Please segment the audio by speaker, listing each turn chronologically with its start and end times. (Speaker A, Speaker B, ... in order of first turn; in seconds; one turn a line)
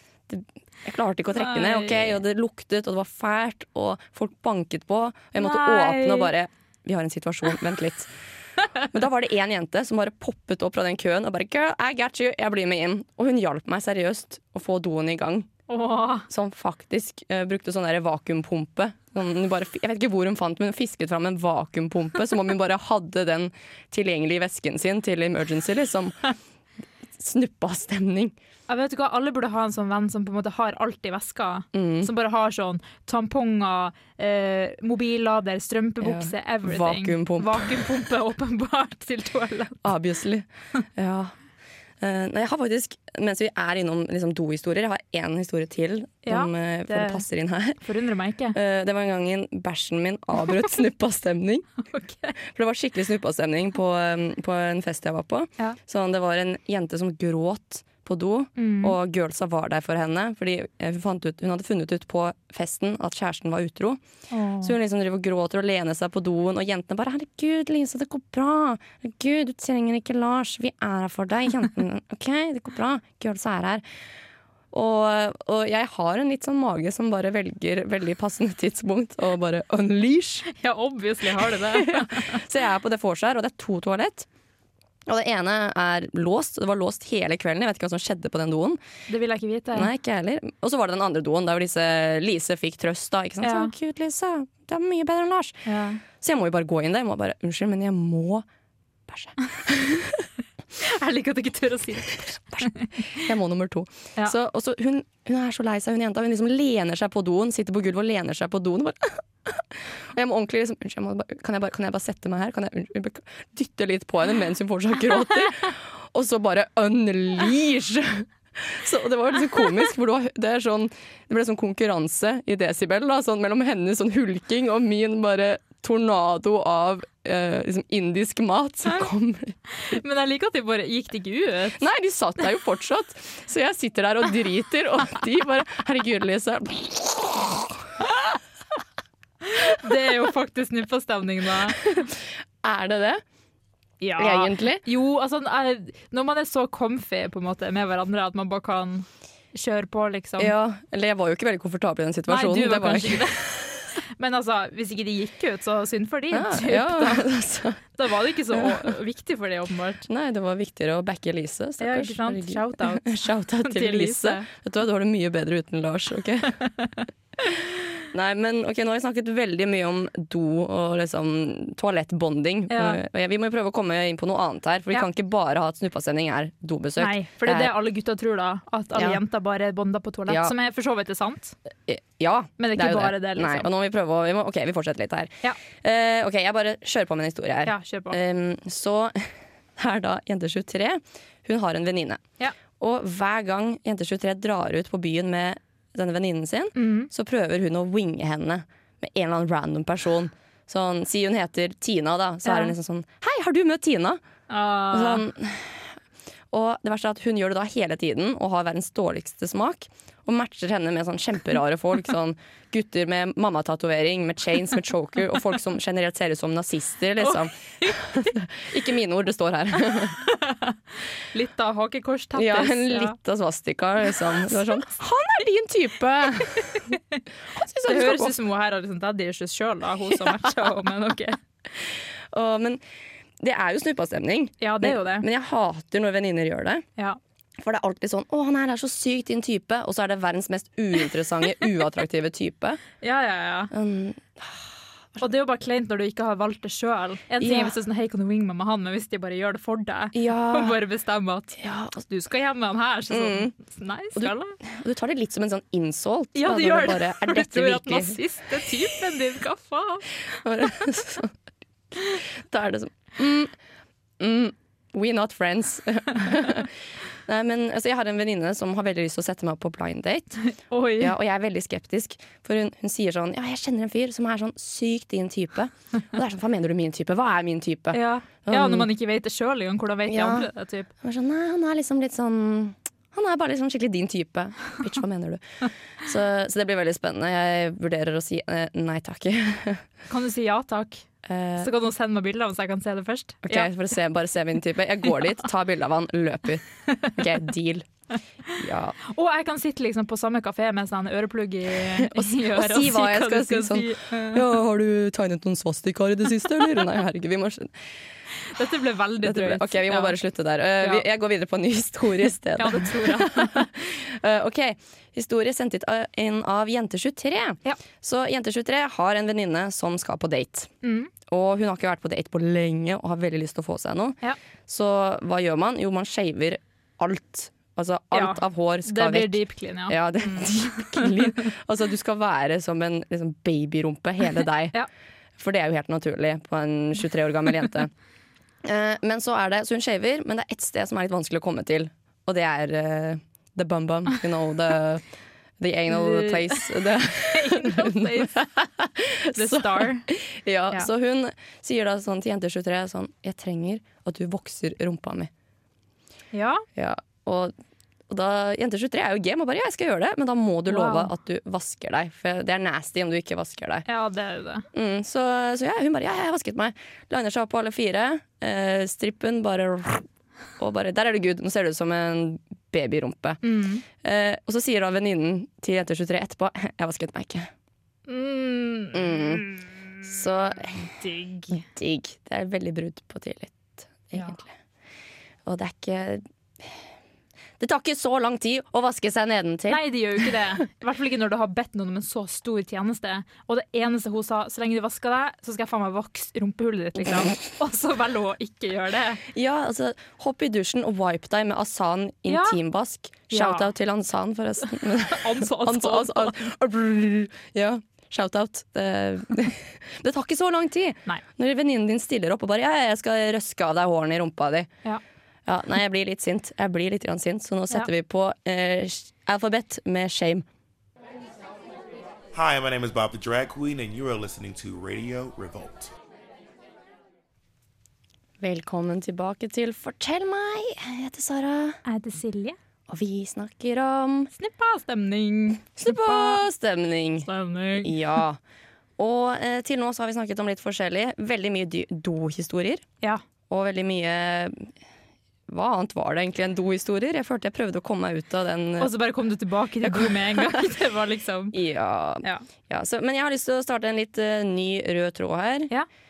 Speaker A: 0.3-8.1
Speaker B: 1.4-2.2
Speaker B: 5.4-6.3
Speaker A: 8.9-15.5
Speaker B: 15.7-16.3
Speaker A: 16.3-26.2
Speaker A: 27.2-28.4
Speaker B: 28.7-39.9
Speaker A: 31.7-32.1
Speaker A: 36.0-37.8
Speaker A: 39.8-41.4
Speaker A: 42.0-47.8
Speaker B: 46.3-47.2
Speaker B: 47.8-48.6
Speaker A: 48.5-51.7
Speaker B: 51.9-52.4
Speaker A: 52.4-64.0
Speaker B: 58.6-59.0
Speaker B: 64.3-64.8
Speaker A: 64.6-73.8
Speaker A: 74.7-80.5
Speaker B: 80.5-82.4
Speaker A: 81.4-84.3
Speaker A: 85.1-88.8
Speaker B: 89.1-89.9
Speaker A: 89.7-95.6
Speaker B: 93.4-93.7
Speaker B: 95.7-96.0
Speaker A: 96.2-98.5
Speaker A: 99.1-100.3
Speaker B: 100.8-103.1
Speaker A: 102.5-129.6
Speaker B: 129.8-131.8
Speaker A: 131.8-138.2
Speaker B: 139.5-141.9
Speaker A: 141.9-143.2
Speaker B: 144.0-150.5
Speaker A: 144.2-144.8
Speaker A: 150.4-153.3
Speaker B: 152.3-153.5
Speaker B: 154.2-157.3
Speaker A: 156.3-157.8
Speaker B: 157.9-160.0
Speaker A: 158.5-158.9
Speaker A: 160.1-166.6
Speaker B: 161.8-164.5
Speaker B: 166.6-167.0
Speaker A: 168.1-177.7
Speaker B: 172.7-173.0
Speaker B: 177.0-181.6
Speaker A: 178.9-179.2
Speaker A: 180.3-180.5
Speaker A: 181.9-192.2
Speaker B: 182.6-183.7
Speaker B: 187.7-188.2
Speaker A: 192.8-204.2
Speaker B: 196.8-197.1
Speaker B: 202.4-202.7
Speaker B: 204.5-205.3
Speaker A: 204.9-205.9
Speaker A: 206.5-220.2
Speaker B: 217.2-218.1
Speaker B: 220.2-220.8
Speaker B: 221.3-223.2
Speaker A: 222.3-226.8
Speaker B: 226.7-227.2
Speaker A: 227.5-228.4
Speaker B: 227.8-231.4
Speaker A: 231.8-232.8
Speaker A: 233.4-236.8
Speaker B: 234.6-235.3
Speaker A: 237.6-242.8
Speaker B: 243.0-243.7
Speaker A: 243.7-245.2
Speaker B: 245.2-254.6
Speaker A: 247.4-247.7
Speaker A: 250.1-250.8
Speaker A: 251.6-252.0
Speaker A: 253.1-253.5
Speaker A: 254.2-258.2
Speaker B: 256.4-260.1
Speaker A: 260.3-261.4
Speaker A: 261.9-263.6
Speaker A: 264.2-270.4
Speaker B: 270.6-271.1
Speaker A: 271.0-278.9
Speaker B: 277.9-280.9
Speaker A: 280.1-280.5
Speaker A: 281.0-285.4
Speaker A: 286.0-289.9
Speaker B: 290.1-291.1
Speaker A: 291.2-291.7
Speaker B: 291.6-293.7
Speaker A: 293.4-297.9
Speaker A: 298.5-299.0
Speaker B: 299.1-304.4
Speaker A: 302.0-307.7
Speaker B: 308.5-310.2
Speaker A: 309.2-320.7
Speaker B: 312.6-313.7
Speaker B: 320.8-321.1
Speaker A: 321.3-334.8
Speaker B: 328.1-331.5
Speaker A: 335.4-337.9
Speaker A: 338.6-345.1
Speaker A: 345.6-355.3
Speaker B: 345.9-348.4
Speaker B: 349.4-350.1
Speaker B: 356.3-356.6
Speaker A: 356.8-357.5
Speaker A: 358.1-363.9
Speaker B: 360.7-361.1
Speaker B: 363.9-364.7
Speaker A: 364.7-370.1
Speaker A: 370.6-373.4
Speaker B: 373.4-373.8
Speaker A: 373.9-377.5
Speaker B: 378.1-379.9
Speaker A: 378.9-379.5
Speaker A: 380.0-380.9
Speaker B: 380.8-381.6
Speaker A: 381.5-384.5
Speaker A: 385.4-386.8
Speaker A: 387.6-390.3
Speaker B: 389.7-399.2
Speaker A: 399.3-414.7
Speaker B: 402.3-402.6
Speaker B: 403.3-403.7
Speaker B: 404.9-406.4
Speaker A: 415.5-420.4
Speaker C: 422.3-425.9
Speaker A: 428.4-431.8
Speaker B: 431.9-432.6
Speaker A: 432.9-434.3
Speaker B: 434.3-436.4
Speaker A: 435.8-437.3
Speaker B: 437.2-438.2
Speaker A: 437.8-438.4
Speaker A: 439.0-442.8
Speaker A: 443.5-444.7
Speaker A: 445.5-448.9
Speaker B: 448.8-451.6
Speaker A: 449.8-450.7
Speaker A: 451.5-455.7